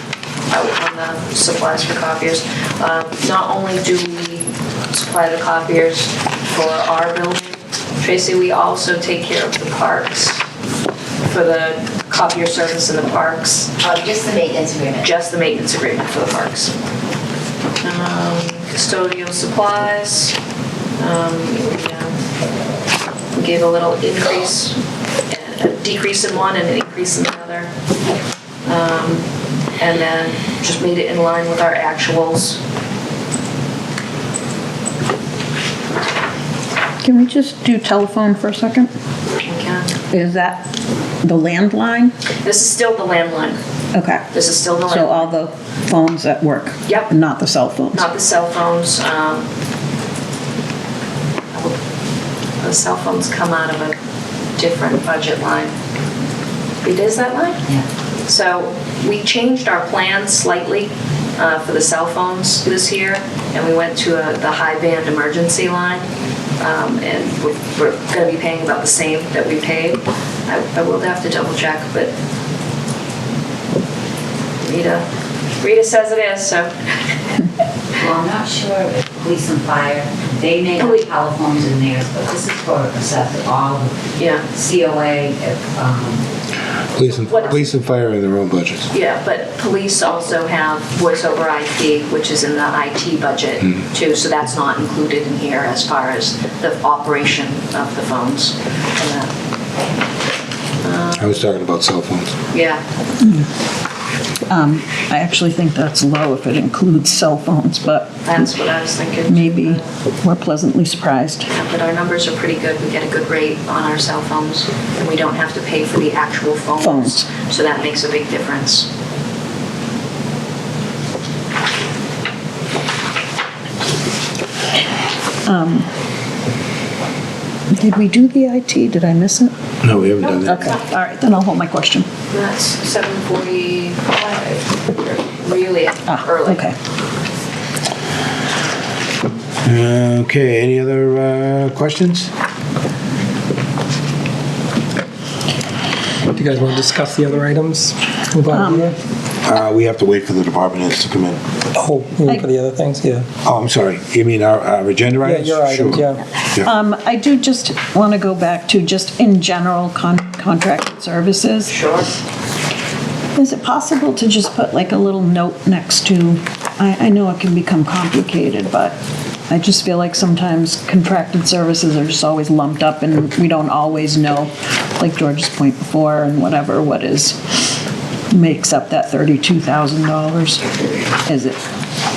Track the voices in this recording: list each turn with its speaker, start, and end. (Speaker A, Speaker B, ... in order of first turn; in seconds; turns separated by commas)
Speaker A: 0.5-10.4, Speaker A: 11.3-13.8, Speaker B: 13.8-15.0, Speaker A: 15.0-16.7, Speaker A: 17.8-20.4, Speaker A: 21.0-22.1, Speaker A: 23.3-27.7, Speaker A: 28.6-29.2, Speaker A: 29.8-32.6, Speaker C: 37.0-38.9, Speaker A: 39.4-39.9, Speaker C: 40.1-40.6, Speaker C: 41.2-42.1, Speaker A: 42.4-43.6, Speaker C: 43.9-44.2, Speaker A: 44.3-45.3, Speaker C: 44.9-48.0, Speaker A: 46.9-47.1, Speaker A: 47.9-49.5, Speaker A: 52.6-54.0, Speaker A: 54.6-55.7, Speaker A: 56.8-57.6, Speaker A: 58.2-66.1, Speaker A: 66.6-72.1, Speaker A: 74.6-75.0, Speaker A: 75.6-76.7, Speaker B: 78.0-83.9, Speaker A: 80.8-81.1, Speaker A: 84.2-84.5, Speaker B: 84.5-86.2, Speaker D: 86.9-88.9, Speaker A: 87.0-87.6, Speaker A: 88.9-99.3, Speaker A: 100.8-101.4, Speaker D: 101.2-102.4, Speaker A: 102.5-102.8, Speaker C: 103.2-103.5, Speaker C: 104.5-108.5, Speaker A: 108.2-109.9, Speaker C: 109.2-111.5, Speaker A: 111.5-118.9, Speaker C: 116.8-117.2, Speaker C: 125.5-125.9, Speaker C: 127.7-129.5, Speaker D: 129.8-130.7, Speaker A: 130.2-131.0, Speaker C: 130.4-132.1, Speaker A: 132.3-136.7, Speaker C: 136.1-136.7, Speaker D: 139.6-142.3, Speaker E: 146.3-148.9, Speaker C: 148.5-148.9, Speaker D: 149.4-151.4, Speaker E: 151.8-153.3, Speaker D: 153.4-156.7, Speaker E: 155.2-156.2, Speaker C: 156.6-161.7, Speaker A: 161.7-162.1, Speaker C: 163.3-168.9, Speaker C: 169.5-177.4, Speaker C: 178.3-180.7, Speaker C: 181.2-181.6